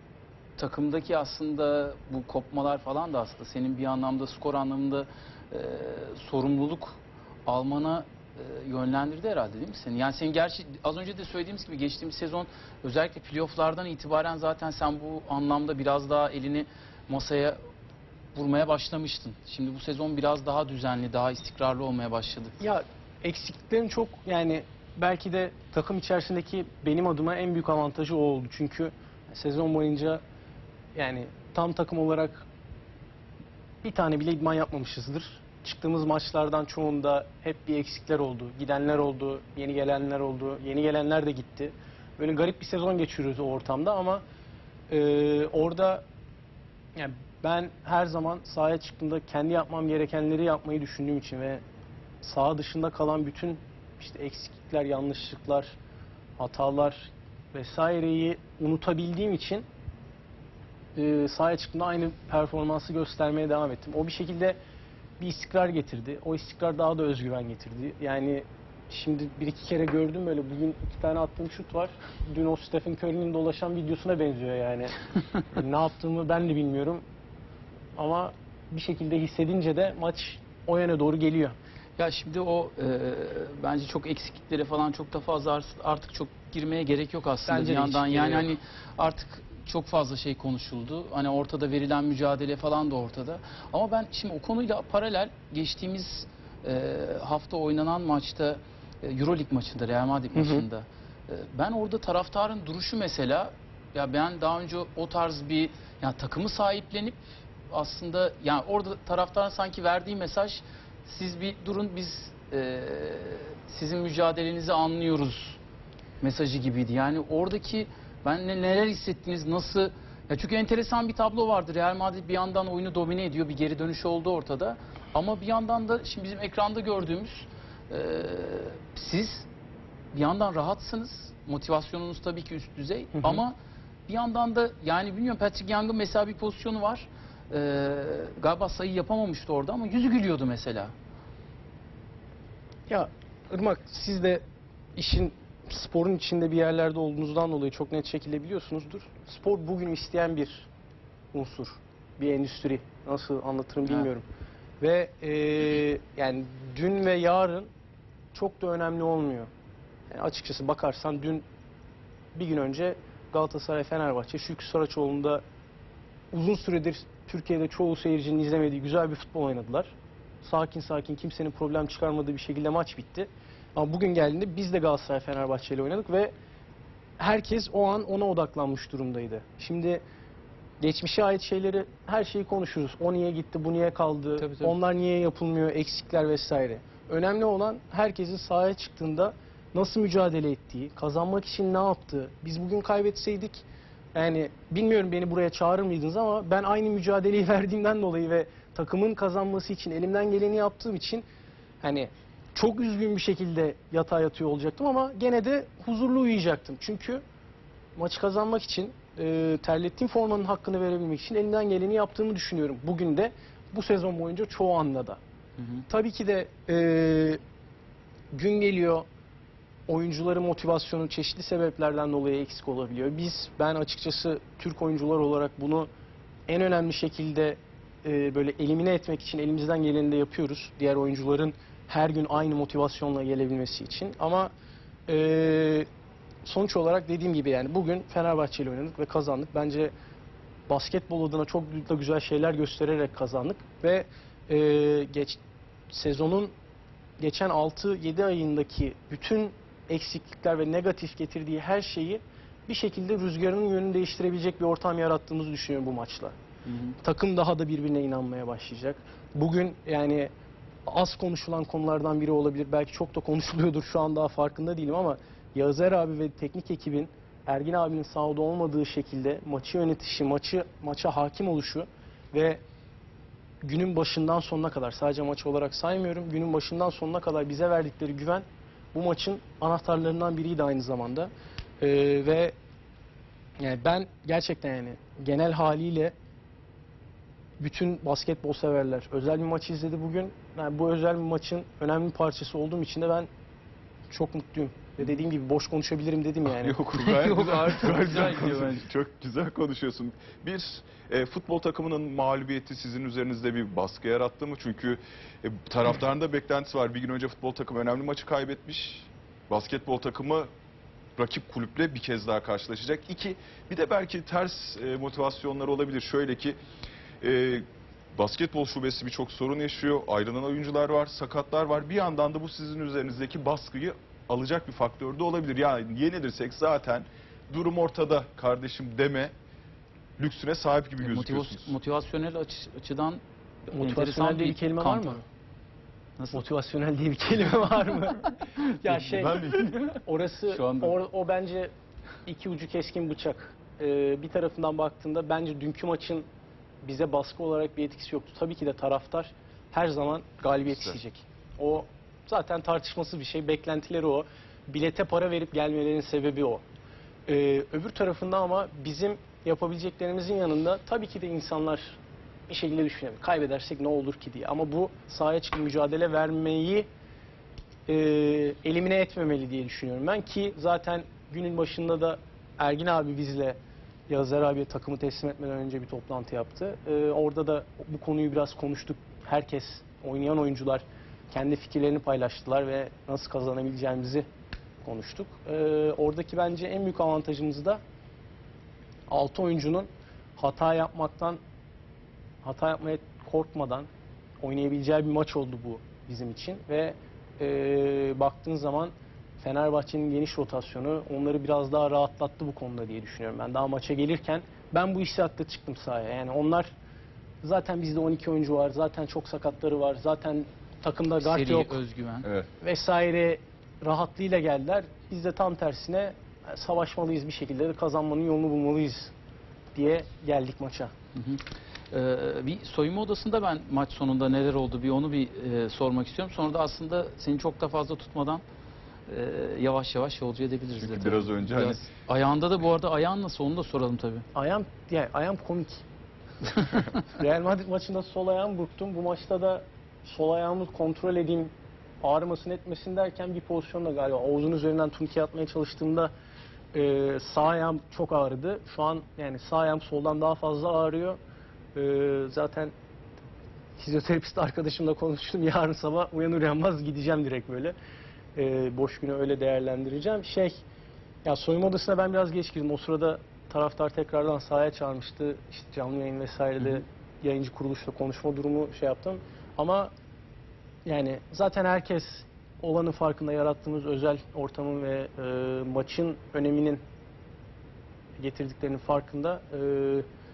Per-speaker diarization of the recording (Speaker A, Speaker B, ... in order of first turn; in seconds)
Speaker A: 0.6-17.6, 18.3-22.5, 82.0-107.2, 107.7-115.6, 116.2-129.5, 130.1-133.6, 134.1-140.9, 184.4-184.7, 215.6-215.8, 256.6-256.9, 296.9-298.9, 331.0-335.2, 340.5-341.0, 411.2-412.3, 421.1-428.4, 429.1-434.2
Speaker B: 22.6-30.2, 30.9-32.4, 33.8-44.2, 44.9-46.0, 47.0-51.6, 52.2-55.7, 56.4-59.6, 61.0-64.6, 65.2-75.0, 75.5-77.0, 78.0-81.5, 87.5-88.5, 100.3-100.7, 133.2-133.4, 142.9-144.4, 144.9-150.7, 151.3-154.2, 154.8-157.7, 158.3-159.5, 160.1-161.4, 162.3-165.4, 166.3-176.3, 177.2-180.0, 180.8-201.2, 201.8-207.2, 207.9-215.2, 215.9-217.4, 218.3-219.0, 219.9-225.9, 226.5-234.5, 235.1-235.9, 236.4-239.9, 240.7-245.4, 245.9-246.5, 247.2-256.3, 257.0-260.3, 260.9-272.6, 273.6-282.5, 283.6-286.1, 287.6-293.3, 294.1-296.9, 333.7-335.2, 336.3-341.7, 342.2-346.2, 346.8-356.6, 357.3-366.9, 367.9-373.6, 374.1-384.2, 384.8-387.8, 389.1-391.4, 392.4-393.9, 394.4-406.7, 407.4-411.8, 412.6-419.1, 419.7-420.9, 434.3-435.8, 437.1-446.1, 446.7-451.2, 451.7-452.7, 453.8-457.7, 458.4-460.6, 461.2-469.9, 470.9-476.8, 478.2-480.1
Speaker C: 296.4-310.5, 311.1-316.6, 317.2-329.3, 330.2-331.7, 338.9-339.8, 430.8-431.8